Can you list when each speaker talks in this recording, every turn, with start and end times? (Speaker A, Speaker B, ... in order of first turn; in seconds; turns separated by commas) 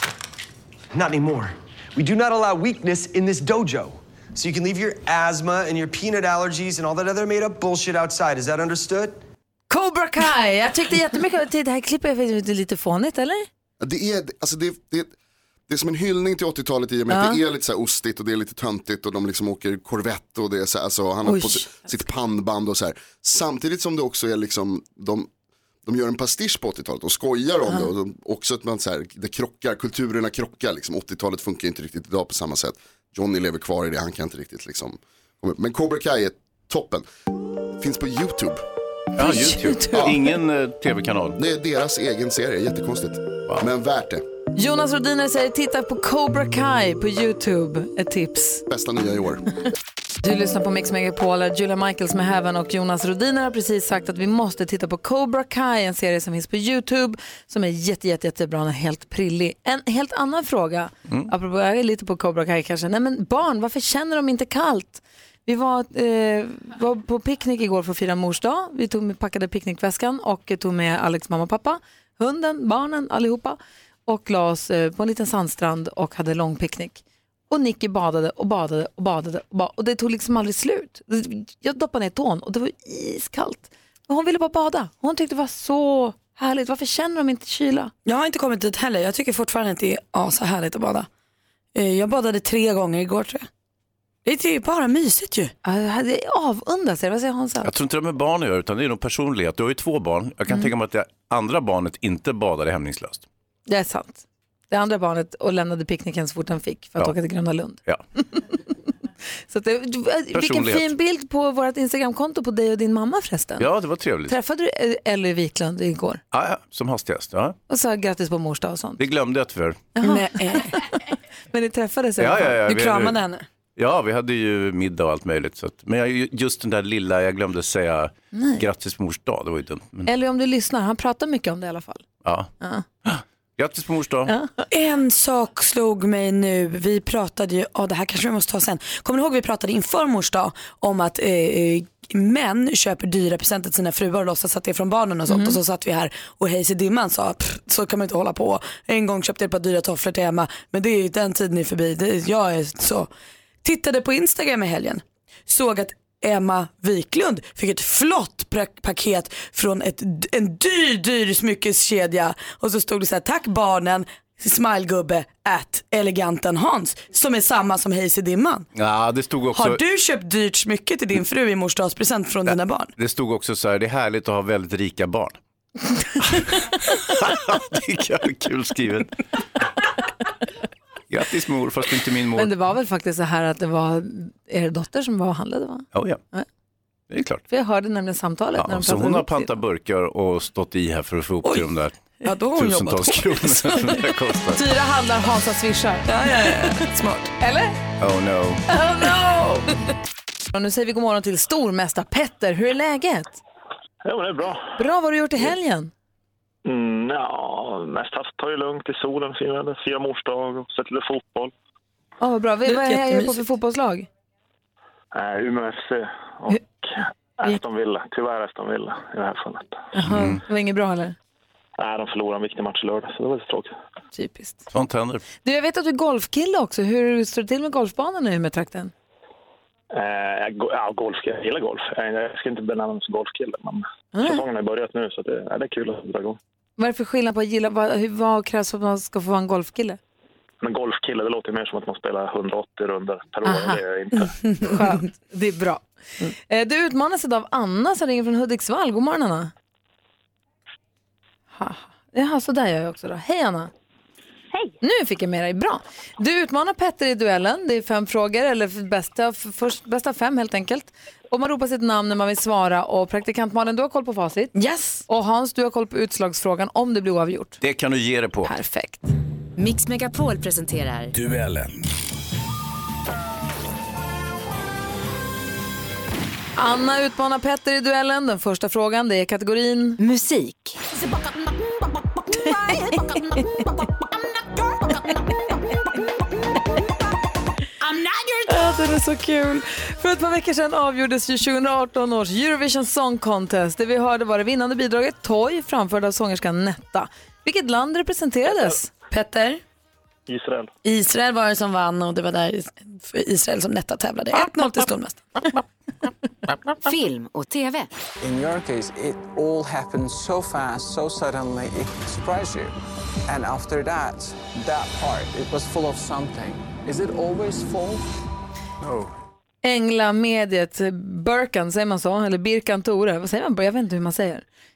Speaker A: 0.9-9.2, Speaker B: 9.7-13.5, Speaker C: 13.8-15.1, Speaker C: 15.7-25.3, Speaker B: 17.1-17.4, Speaker B: 21.2-21.6, Speaker C: 25.8-37.0, Speaker C: 37.8-38.6, Speaker D: 39.1-41.4, Speaker B: 39.2-40.1, Speaker C: 41.4-44.2, Speaker B: 44.5-48.6, Speaker C: 48.7-49.4, Speaker B: 50.2-87.9, Speaker E: 88.0-91.1, Speaker E: 91.7-93.5, Speaker E: 94.2-95.5, Speaker B: 95.6-97.7, Speaker D: 97.6-103.2, Speaker B: 103.7-107.8, Speaker B: 109.5-113.7, Speaker D: 110.3-110.9, Speaker D: 113.6-114.3, Speaker B: 114.2-116.2, Speaker D: 116.3-117.5, Speaker B: 117.7-119.0, Speaker D: 119.0-119.8, Speaker B: 120.0-120.8, Speaker E: 120.0-120.8, Speaker B: 121.5-122.6, Speaker D: 122.2-123.2, Speaker E: 122.7-123.4, Speaker D: 123.8-130.1, Speaker B: 128.3-128.6, Speaker B: 130.0-132.0, Speaker D: 132.2-132.5, Speaker D: 133.0-134.3, Speaker B: 134.3-134.5, Speaker E: 134.7-153.1, Speaker B: 145.3-145.6, Speaker E: 153.6-168.7, Speaker D: 168.8-169.8, Speaker E: 169.5-172.9, Speaker D: 172.4-175.4, Speaker D: 176.2-179.1, Speaker D: 181.1-182.5, Speaker B: 182.3-186.5, Speaker D: 185.9-186.2, Speaker D: 187.1-187.4, Speaker B: 187.5-189.5, Speaker D: 188.6-192.0, Speaker E: 192.2-194.0, Speaker D: 192.5-194.6, Speaker B: 194.5-196.7, Speaker E: 196.1-197.3, Speaker B: 197.4-197.8, Speaker D: 198.0-198.6, Speaker B: 198.7-199.7, Speaker B: 200.5-203.4, Speaker F: 204.0-204.8, Speaker B: 204.8-205.9, Speaker F: 206.6-211.5, Speaker B: 212.2-214.1, Speaker E: 212.7-213.4, Speaker F: 215.1-219.8, Speaker B: 219.9-221.2, Speaker D: 220.0-220.4, Speaker F: 221.8-223.7, Speaker B: 224.1-224.7, Speaker D: 224.7-225.2, Speaker B: 225.4-228.9, Speaker F: 229.9-236.4, Speaker B: 234.1-234.4, Speaker B: 236.8-240.0, Speaker F: 240.6-244.3, Speaker B: 243.4-249.5, Speaker B: 251.5-253.7, Speaker B: 254.8-267.6, Speaker E: 264.6-265.0, Speaker D: 267.6-268.5, Speaker B: 268.4-269.1, Speaker G: 269.6-271.1, Speaker B: 276.6-280.0, Speaker G: 280.0-280.8, Speaker B: 288.5-298.9, Speaker E: 299.1-299.6, Speaker F: 300.3-300.7, Speaker E: 300.8-305.5, Speaker G: 306.8-307.9, Speaker H: 308.2-312.7, Speaker H: 313.2-318.1, Speaker H: 318.8-319.1, Speaker B: 319.6-324.4